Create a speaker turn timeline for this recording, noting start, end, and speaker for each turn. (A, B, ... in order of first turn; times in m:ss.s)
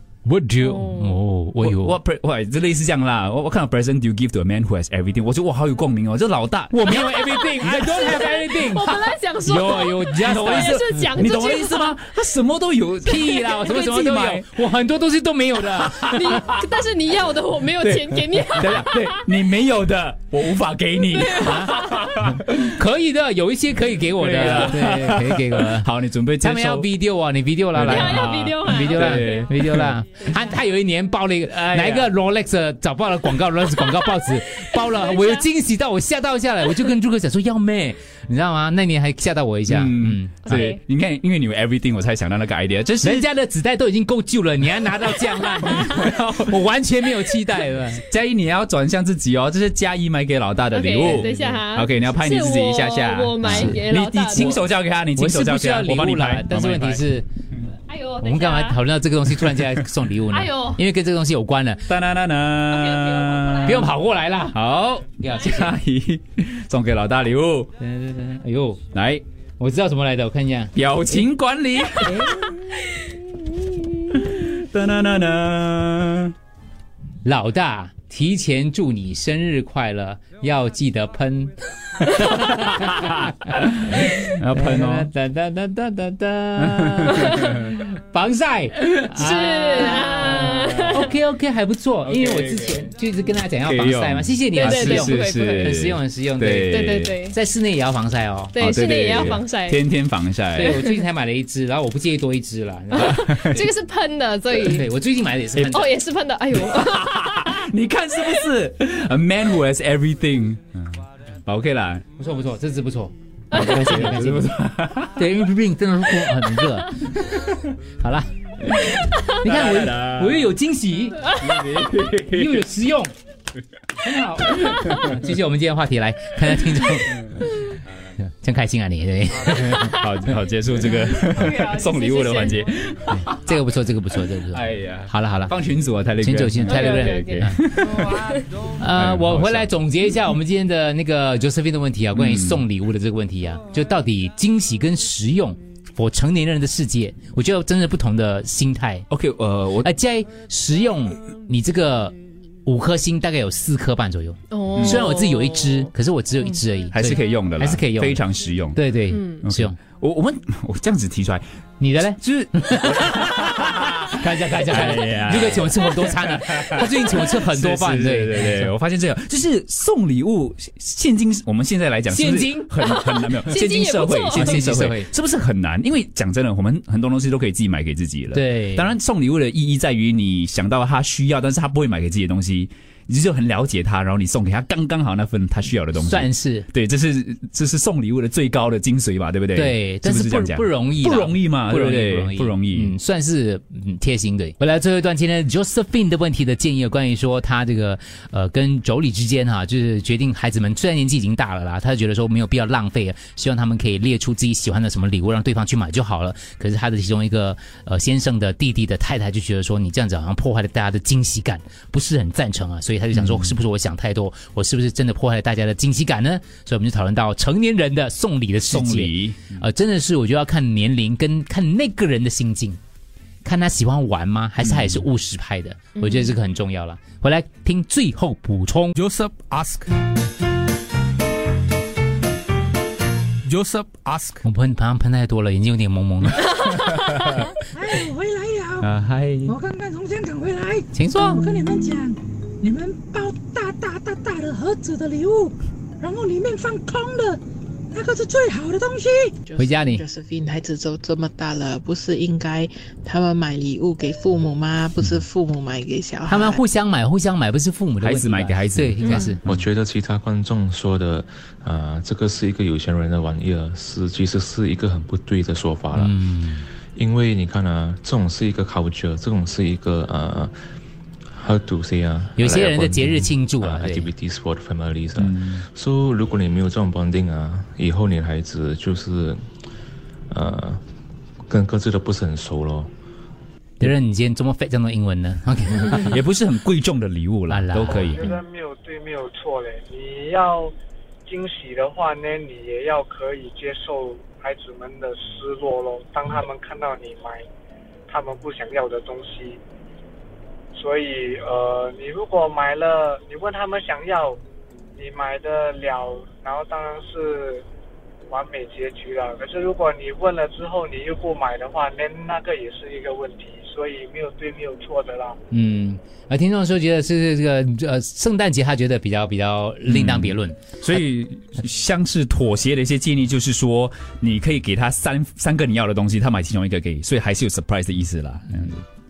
0:00.2-0:02.0 A
0:00.6-0:01.2 B
0:01.6-0:06.7 C
0:06.7-0:08.9 A
0:06.9-0:12.0 B
0:07.6-0:08.0 C
0:09.4-0:10.8 A
0:10.2-0:14.4 C
0:13.0-0:16.4 A
0:13.1-0:14.4 B
0:16.0-0:16.6 C
0:16.1-0:19.4 B
0:17.7-0:22.7 C
0:21.1-0:21.9 B
0:21.4-0:21.7 A
0:22.6-0:25.8 A
0:24.1-0:26.9 C
0:26.4-0:40.7 A
0:27.7-0:29.9 C
0:27.8-0:29.5 B
0:31.7-0:32.1 C
0:35.1-0:35.4 B
0:39.7-0:43.3 C
0:40.4-0:40.8 B
0:43.0-0:48.0 A
0:46.0-0:46.4 C
0:48.1-0:57.0 C
0:50.7-0:54.6 B
0:53.4-0:53.8 A
0:54.3-0:54.6 A
0:55.2-0:57.2 A
0:57.9-0:58.8 B
0:58.2-1:01.8 A
1:00.3-1:00.8 B
1:01.9-1:03.9 C
1:02.7-1:03.9 B
1:03.6-1:04.6 A
1:04.5-1:07.7 C
1:05.2-1:05.7 A
1:07.8-1:08.8 A
1:08.9-1:09.2 C
1:09.6-1:11.2 A
1:10.7-1:12.2 C
1:12.0-1:12.4 A
1:14.1-1:16.3 C
1:17.2-1:23.3 A
1:23.9-1:38.6 A
1:24.4-1:25.1 C
1:26.6-1:27.3 C
1:29.2-1:31.1 B
1:32.1-1:32.6 C
1:33.6-1:37.1 C
1:34.5-1:35.9 B
1:36.6-1:37.3 B
1:38.5-1:39.8 B
1:38.6-1:40.8 C
1:40.5-1:43.7 A
1:40.6-1:41.0 B
1:42.9-1:44.8 B
1:43.2-1:43.6 C
1:44.7-1:45.8 A
1:45.6-1:45.9 C
1:45.6-1:47.1 B
1:46.6-1:52.0 C
1:52.2-1:54.5 A
1:53.5-1:55.1 C
1:55.1-1:57.2 A
1:58.0-2:01.2 A
1:59.4-2:00.5 C
2:01.4-2:02.6 C
2:02.3-2:03.1 A
2:04.0-2:07.4 A
2:04.8-2:05.1 C
2:08.4-2:09.9 A
2:09.5-2:13.4 C
2:10.8-2:12.6 B
2:13.3-2:15.5 A
2:14.5-2:18.4 C
2:16.2-2:17.6 A
2:16.7-2:18.4 B
2:18.8-2:29.1 A
2:18.9-2:19.7 C
2:22.1-2:22.6 C
2:29.1-2:29.9 C
2:29.8-2:32.1 A
2:32.6-2:38.2 A
2:34.5-2:35.8 B
2:34.8-2:35.1 C
2:36.9-2:38.8 C
2:38.7-2:39.8 A
2:39.1-2:39.4 B
2:39.4-2:41.4 C
2:41.8-2:48.7 A
2:42.2-3:12.9 C
2:52.1-2:52.9 A
2:53.4-2:54.6 B
2:54.3-2:55.1 A
2:58.3-2:58.9 A
3:06.0-3:06.7 A
3:09.5-3:42.8 A
3:33.1-3:33.5 C
3:38.7-3:39.6 C
3:43.4-3:48.9 A
3:44.6-3:45.0 C
3:46.0-3:46.3 B
3:49.0-3:49.9 D
3:53.4-3:54.4 D
3:54.4-3:56.5 A
3:57.7-3:58.9 E
3:58.8-3:59.6 C
3:59.4-4:07.4 E
4:00.9-4:01.5 A
4:07.9-4:09.3 E
4:09.4-4:16.6 F
4:09.6-4:10.0 A
4:16.3-4:19.4 A
4:18.0-4:19.7 C
4:19.0-4:19.4 B
4:19.5-4:26.2 G
4:25.9-4:26.6 A
4:26.9-4:30.6 G
4:31.3-4:39.4 G
4:32.4-4:34.1 A
4:35.2-4:35.6 C
4:40.3-4:40.8 G
4:41.5-4:42.9 G
4:43.8-4:46.2 A
4:46.0-4:48.2 C
4:47.5-4:48.4 A
4:48.2-4:50.7 H
4:51.3-4:57.4 H
4:58.1-4:59.6 H
5:00.8-5:04.4 H
5:05.0-5:07.6 H
5:08.3-5:15.4 H
5:15.5-5:20.6 A
5:19.9-5:28.8 C